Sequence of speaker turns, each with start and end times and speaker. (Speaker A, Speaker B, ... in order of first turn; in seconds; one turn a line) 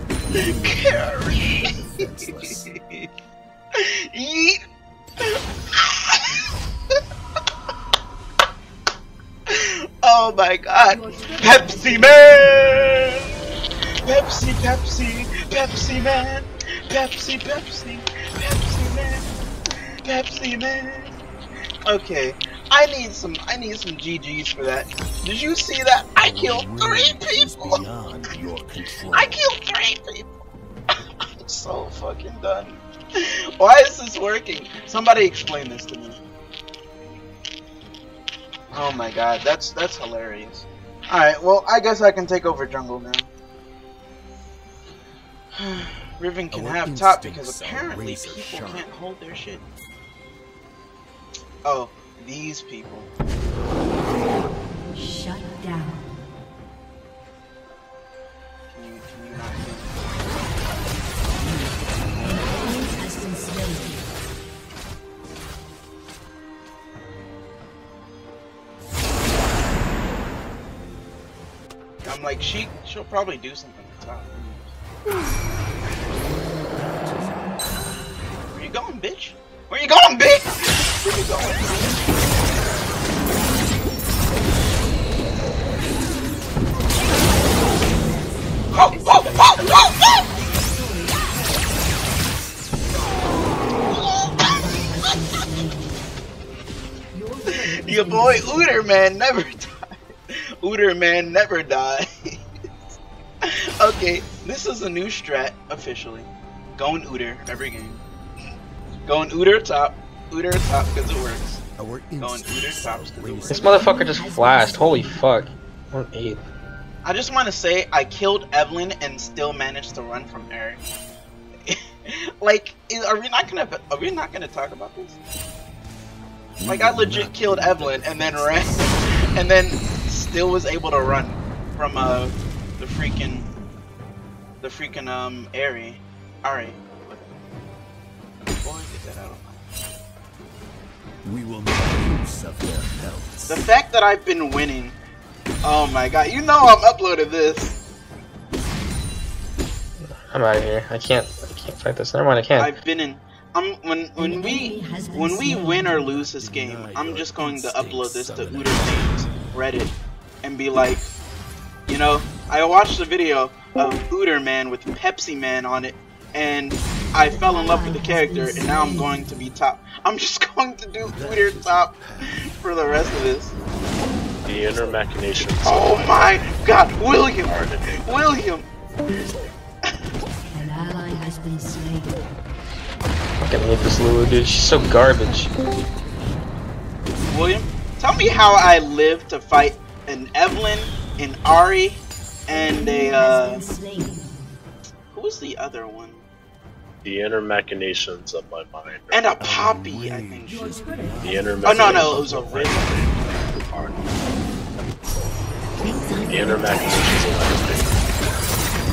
Speaker A: 0.2-2.7
Speaker B: 0.6-1.7
Speaker B: 2.4-3.1
Speaker B: 3.7-4.6
Speaker B: 5.2-6.3
Speaker B: 9.5-13.2
Speaker C: 10.9-12.8
Speaker B: 14.0-19.3
Speaker B: 20.0-21.1
Speaker B: 21.9-27.8
Speaker A: 26.2-29.4
Speaker B: 29.1-30.3
Speaker B: 31.4-36.2
Speaker B: 38.7-43.3
Speaker B: 45.5-49.6
Speaker A: 46.5-48.9
Speaker B: 51.6-53.1
Speaker C: 54.9-56.1
Speaker B: 58.7-60.0
Speaker A: 61.4-62.3
Speaker C: 62.2-64.1
Speaker B: 72.0-74.8
Speaker A: 76.0-77.7
Speaker B: 78.5-82.0
Speaker C: 81.6-82.1
Speaker C: 87.4-88.4
Speaker B: 88.7-90.2
Speaker D: 88.9-89.8
Speaker C: 90.0-91.8
Speaker C: 94.2-96.1
Speaker C: 97.1-99.1
Speaker B: 97.8-102.4
Speaker B: 103.4-108.0
Speaker B: 109.0-111.6
Speaker A: 111.8-113.8
Speaker B: 112.2-113.8
Speaker D: 113.5-116.4
Speaker C: 113.8-115.3
Speaker B: 117.0-120.8
Speaker B: 121.7-125.2
Speaker A: 126.6-129.1
Speaker B: 126.7-133.5
Speaker B: 134.6-137.3
Speaker B: 138.6-139.6
Speaker A: 141.2-143.7
Speaker B: 143.5-145.0
Speaker B: 145.6-147.8
Speaker D: 150.3-152.7
Speaker B: 152.6-161.1
Speaker C: 154.2-156.1
Speaker A: 156.0-159.3
Speaker B: 161.9-173.5
Speaker C: 167.2-169.2
Speaker A: 171.0-172.5
Speaker E: 174.4-176.6
Speaker B: 175.6-178.6
Speaker E: 177.4-178.3
Speaker C: 180.5-182.2
Speaker D: 183.4-185.5
Speaker B: 187.2-193.6
Speaker C: 192.5-194.4
Speaker B: 195.1-196.2
Speaker E: 197.0-199.3
Speaker B: 199.1-200.7
Speaker A: 199.4-203.3
Speaker C: 200.5-201.2
Speaker E: 201.2-204.1
Speaker B: 201.6-202.9
Speaker C: 205.8-207.4
Speaker E: 206.3-208.0
Speaker A: 206.8-208.3